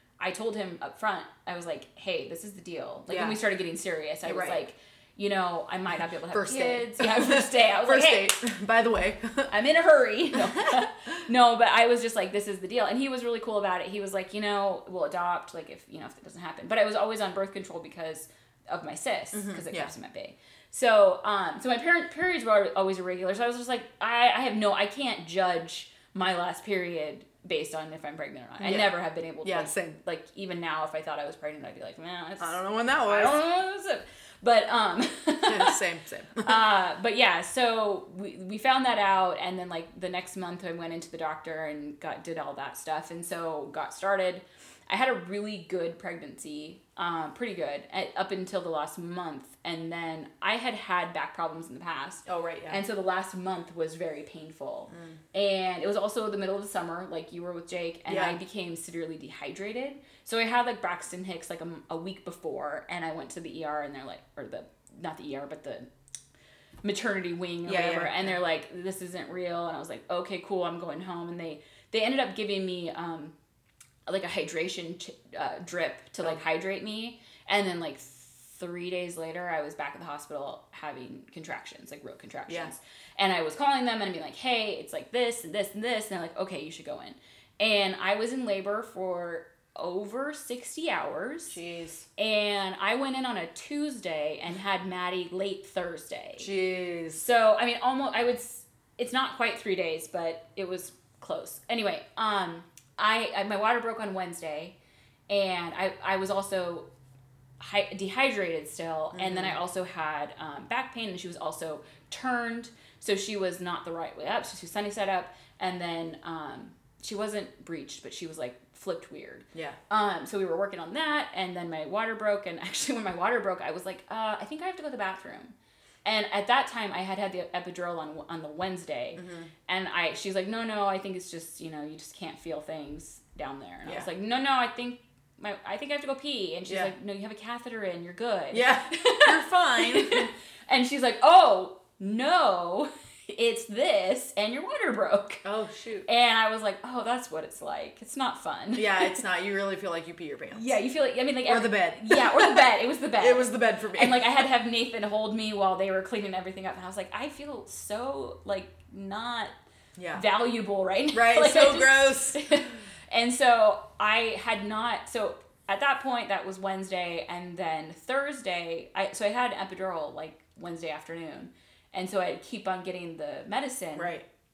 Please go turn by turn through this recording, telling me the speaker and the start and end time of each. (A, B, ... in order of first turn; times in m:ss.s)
0:00.2-0:08.3 A
0:03.1-0:03.4 B
0:04.2-0:04.6 B
0:06.3-0:09.5 B
0:09.5-0:35.8 A
0:10.5-0:10.8 B
0:19.3-0:19.9 B
0:28.6-0:30.0 B
0:32.4-0:33.4 B
0:35.4-0:36.6 B
0:36.4-1:05.9 A
0:52.3-0:52.8 B
0:54.9-0:55.2 B
0:58.1-0:58.4 B
1:06.8-1:13.3 A
1:07.6-1:08.3 B
1:14.1-1:31.6 A
1:22.5-1:22.7 B
1:31.5-1:32.1 B
1:32.2-1:36.5 A
1:36.4-1:37.2 B
1:37.2-1:44.7 A
1:45.3-1:46.9 A
1:47.6-2:25.4 A
1:49.1-1:49.6 B
2:09.1-2:09.5 B
2:16.7-2:16.9 B
2:18.5-2:20.3 B
2:25.4-2:26.1 B
2:26.1-2:29.2 A
2:28.7-2:30.7 B
2:30.5-2:39.5 A
2:31.4-2:32.7 B
2:33.2-2:34.4 B
2:40.0-2:40.2 B
2:40.1-2:54.2 A
2:41.1-2:42.4 B
2:54.0-2:54.3 B